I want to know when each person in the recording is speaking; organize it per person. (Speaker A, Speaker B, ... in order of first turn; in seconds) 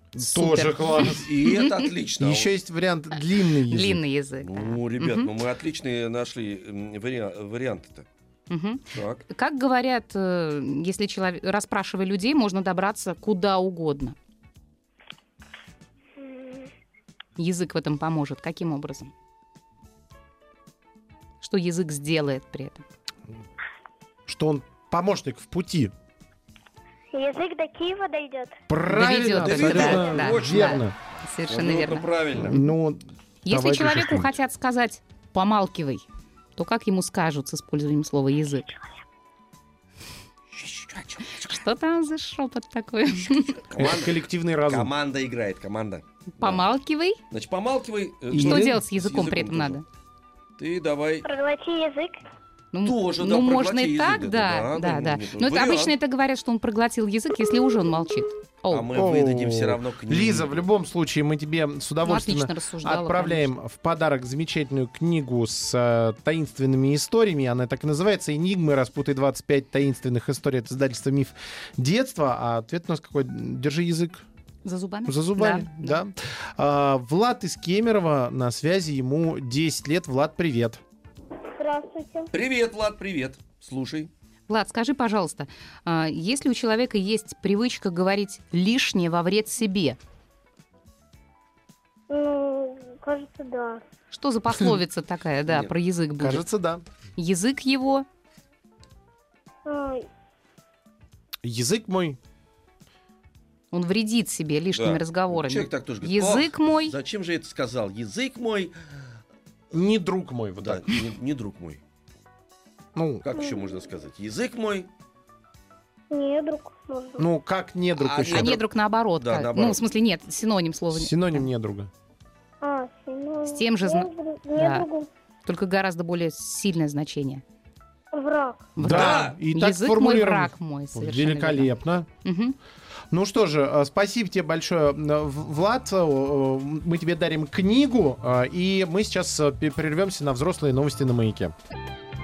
Speaker A: 0.1-1.3, 2.2-4.0, 24.3-25.9, 28.7-30.9, 32.4-34.3, 43.7-44.9, 48.3-48.8, 58.9-74.3, 75.1-80.8, 96.2-96.8, 101.4-102.2, 109.7-111.1, 113.0-113.2, 117.2-118.6, 120.9-121.9, 128.8-132.1, 133.1-141.5
Speaker B: 0.2-1.9, 3.7-5.3, 8.5-14.2, 17.4-19.1, 21.4-22.9, 28.9-32.7, 33.5-36.0, 36.6-38.7, 41.4-43.6, 46.4-47.2, 48.3-49.8, 52.7-58.9, 62.0-63.5, 74.7-76.0, 84.5-90.0, 94.1-96.5, 97.2-98.1, 103.7-106.9, 118.3-121.5, 123.5-124.9, 125.5-127.4, 128.8-131.7, 132.2-132.6
Speaker C: 1.2-2.5, 4.4-8.1, 8.9-9.2, 29.2-30.9, 31.5-32.6, 40.5-41.6, 43.7-46.7, 47.3-49.8, 50.6-51.3, 52.8-56.0, 58.7-60.6, 82.3-84.1, 104.8-108.7, 110.6-111.8, 113.2-114.9, 118.0-118.7, 119.2-119.8, 128.8-129.4
Speaker D: 16.2-16.7, 27.1-28.6, 51.2-52.2, 81.6-82.3, 92.1-93.8, 99.7-100.1, 113.4-113.8, 116.1-117.2, 122.6-125.1, 128.1-128.7